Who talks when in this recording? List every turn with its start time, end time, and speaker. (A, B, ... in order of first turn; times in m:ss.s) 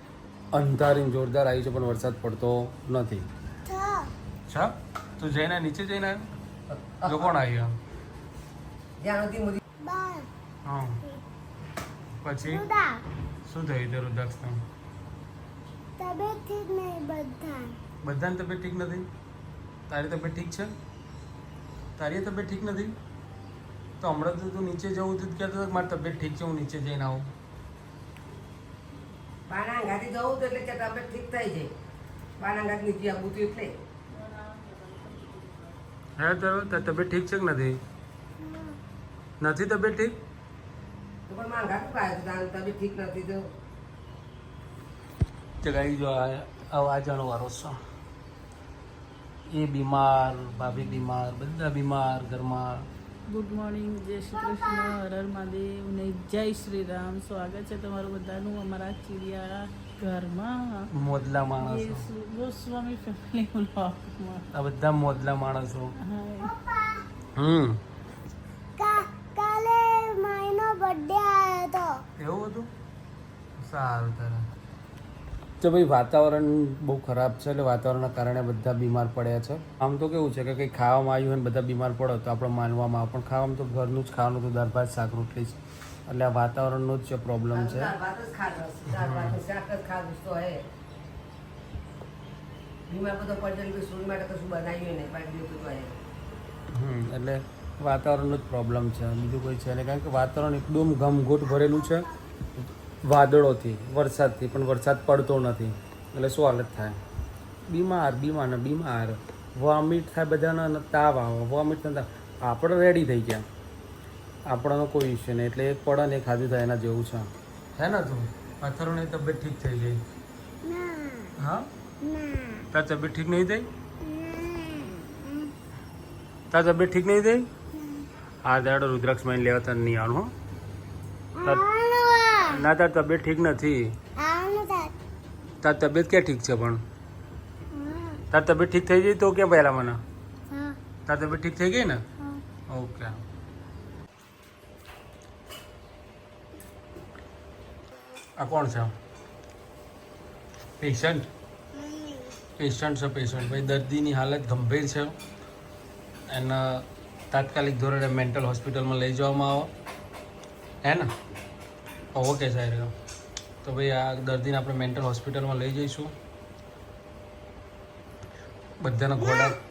0:00.5-0:03.2 A
0:03.6-0:04.1 B
0:04.5-0:06.2 A
0:06.7-0:07.3 C
0:07.0-0:07.7 A
0:09.0-0:09.6 C
0:09.8-0:10.3 B
0:10.6-0:11.0 A
0:12.2-0:12.6 A
0:12.4-0:13.0 B
0:13.4-0:14.6 A
0:16.0-0:17.8 B
0:18.0-0:19.1 A
0:19.9-0:20.7 A
0:22.0-0:22.9 A
0:24.0-0:27.3 A
0:29.5-0:31.7 C
0:32.4-0:33.7 C
0:34.1-0:35.8 D
0:36.2-0:37.8 A
0:38.4-0:38.7 B
0:39.4-0:40.1 A
0:41.3-0:43.4 C
0:45.6-0:47.8 A
0:49.5-0:52.9 A
0:53.3-1:00.9 D
1:00.9-1:02.0 A
1:01.6-1:04.4 D
1:04.5-1:05.9 A
1:06.0-1:06.5 D
1:06.4-1:07.0 B
1:07.4-1:07.8 A
1:08.8-1:12.0 B
1:12.2-1:12.7 A
1:13.6-1:14.4 A
1:15.6-1:27.9 A
1:27.5-1:30.6 C
1:28.9-1:29.4 A
1:32.9-1:35.9 C
1:36.7-1:42.1 A
1:43.0-1:47.0 A
1:47.7-1:53.4 A
1:54.5-2:00.0 A
2:00.6-2:01.3 B
2:01.4-2:01.7 A
2:02.0-2:02.7 B
2:02.7-2:03.7 A
2:04.0-2:05.5 B
2:06.5-2:07.5 A
2:07.7-2:08.1 B
2:08.4-2:10.3 A
2:11.3-2:12.6 B
2:12.4-2:13.9 A
2:14.2-2:14.9 B
2:15.6-2:16.8 A
2:17.7-2:18.2 B
2:18.3-2:20.0 A
2:20.5-2:20.8 B
2:21.1-2:22.0 A
2:22.2-2:22.4 B
2:22.7-2:23.2 A
2:28.4-2:28.9 A
2:30.8-2:31.3 A
2:31.7-2:32.4 B
2:32.6-2:35.1 A
2:36.3-2:39.7 A
2:40.8-2:41.1 A
2:42.1-2:42.9 A
2:43.6-2:46.1 A
2:48.8-2:49.6 A
2:49.2-2:49.5 B